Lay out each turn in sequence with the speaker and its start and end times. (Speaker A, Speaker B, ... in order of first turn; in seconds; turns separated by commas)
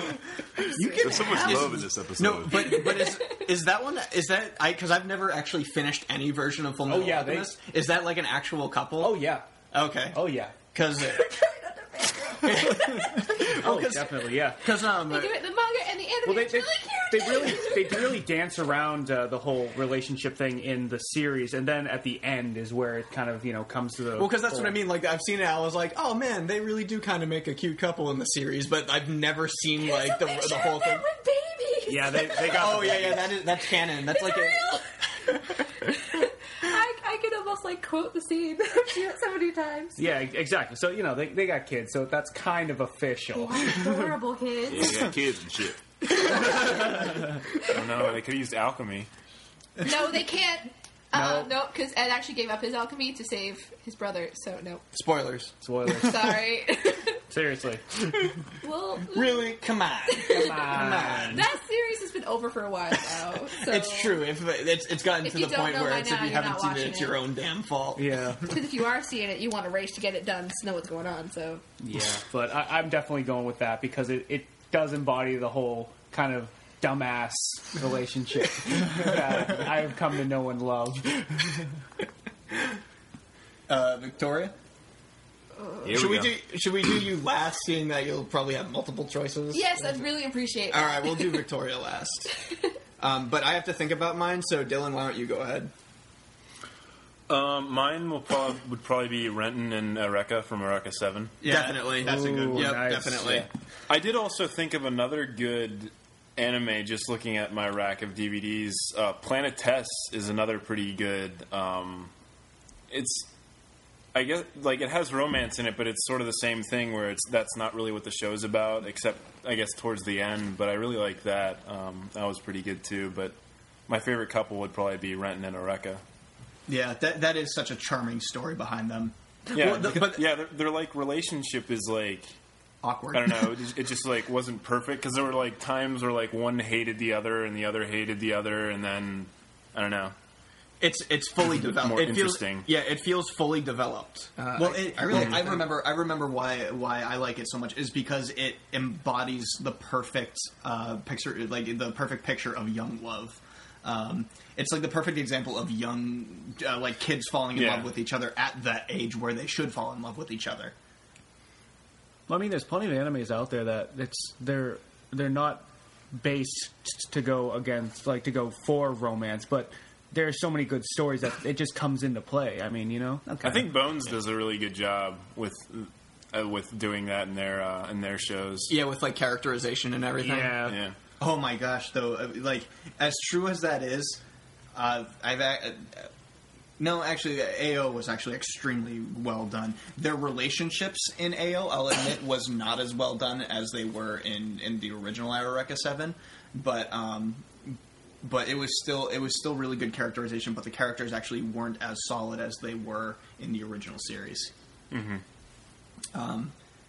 Speaker A: 0.7-1.8, Speaker B: 0.9-9.2, Speaker C: 1.0-2.8, Speaker A: 2.5-3.4, Speaker D: 6.8-7.5, Speaker D: 9.0-9.4, Speaker B: 9.7-11.3, Speaker D: 10.1-10.5, Speaker A: 11.0-13.3, Speaker B: 12.4-15.4, Speaker D: 13.4-14.6, Speaker A: 14.9-18.1, Speaker D: 16.2-24.8, Speaker B: 24.1-31.0, Speaker A: 29.8-32.7, Speaker D: 31.9-33.4, Speaker B: 32.5-34.7, Speaker A: 33.8-34.8, Speaker A: 35.8-40.0, Speaker D: 40.0-44.0, Speaker A: 43.3-45.1, Speaker C: 44.7-45.8, Speaker A: 46.1-47.7, Speaker E: 47.6-49.1, Speaker A: 49.8-54.8, Speaker F: 51.1-51.4, Speaker B: 54.9-55.5, Speaker D: 55.6-56.4, Speaker A: 55.9-57.2, Speaker D: 57.3-57.9, Speaker A: 58.6-64.2, Speaker B: 59.1-61.5, Speaker D: 60.3-61.4, Speaker B: 63.6-68.0, Speaker A: 65.2-67.2, Speaker D: 68.0-68.4, Speaker A: 68.5-71.6, Speaker D: 71.8-81.5, Speaker F: 83.7-84.5, Speaker A: 85.6-85.9, Speaker C: 85.8-86.4, Speaker B: 85.9-90.0, Speaker A: 89.5-91.4, Speaker B: 90.7-92.3, Speaker B: 93.0-95.7, Speaker E: 97.3-101.4, Speaker B: 101.4-103.5, Speaker F: 101.4-102.9, Speaker D: 102.0-103.5, Speaker E: 103.9-112.1, Speaker E: 112.9-113.3, Speaker E: 114.1-123.3, Speaker E: 123.9-126.0, Speaker F: 126.7-130.2, Speaker E: 129.5-132.3, Speaker B: 129.8-130.2, Speaker F: 132.8-133.4, Speaker E: 133.1-140.1, Speaker B: 140.8-145.6, Speaker E: 141.5-142.7, Speaker F: 144.6-160.7, Speaker E: 157.5-157.9, Speaker D: 162.3-173.7, Speaker E: 173.4-178.7, Speaker B: 178.7-180.7, Speaker D: 180.2-180.8, Speaker E: 180.6-180.9, Speaker F: 181.2-184.2, Speaker F: 184.7-186.1, Speaker F: 186.8-204.5, Speaker E: 204.9-205.2, Speaker F: 206.1-206.5